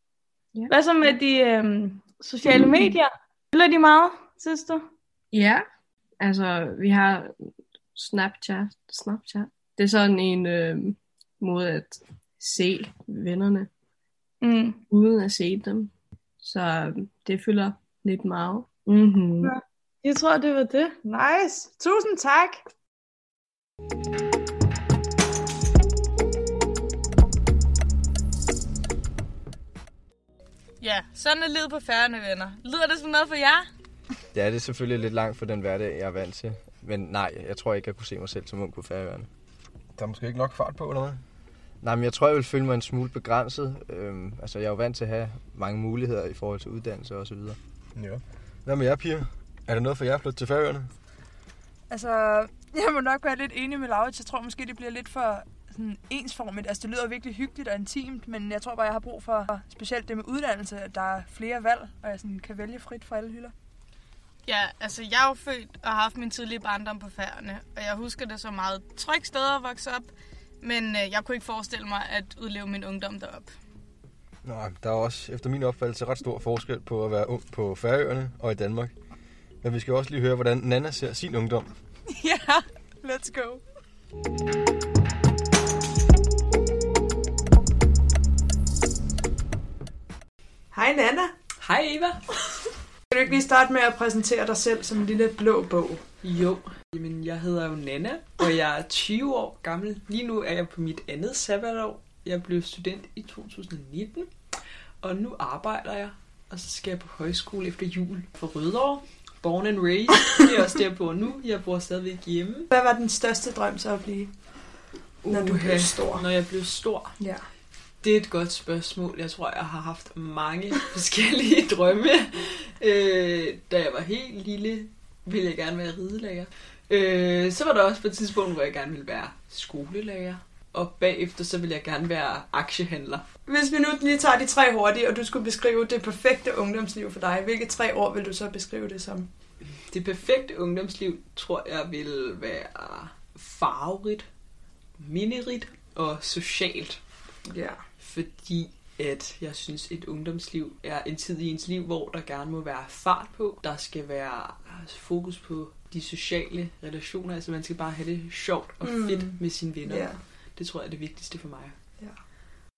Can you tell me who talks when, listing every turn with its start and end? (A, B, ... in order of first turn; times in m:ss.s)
0:00.7-0:04.8 A
0:05.3-0:05.6 B
0:06.2-0:07.3 B
0:07.9-0:13.7 B
0:14.4-0:14.8 A
0:14.9-0:15.9 B
0:16.4-0:19.5 B
0:20.0-0:20.9 A
0:21.0-0:22.6 C
0:30.8-0:33.7 A
0:34.3-0:39.3 D
0:39.9-0:41.2 E
0:41.8-0:47.6 D
0:47.9-0:50.9 E
0:51.9-1:03.5 C
1:04.4-1:10.1 A
1:10.6-1:13.5 A
1:14.4-1:18.9 E
1:19.6-1:21.7 E
1:22.1-1:23.6 C
1:30.7-1:31.3 C
1:31.6-1:32.4 F
1:33.1-1:36.0 C
1:36.2-1:52.7 F
1:52.7-1:54.8 C
1:55.2-1:57.3 F
1:55.3-1:56.2 C
1:57.2-1:57.4 C
1:57.9-2:13.2 F
2:13.4-2:19.3 C
2:19.8-2:24.2 F
2:25.0-2:27.0 F
2:27.5-2:27.8 C
2:28.0-2:41.8 F
2:38.8-2:40.2 C
2:42.0-2:42.2 C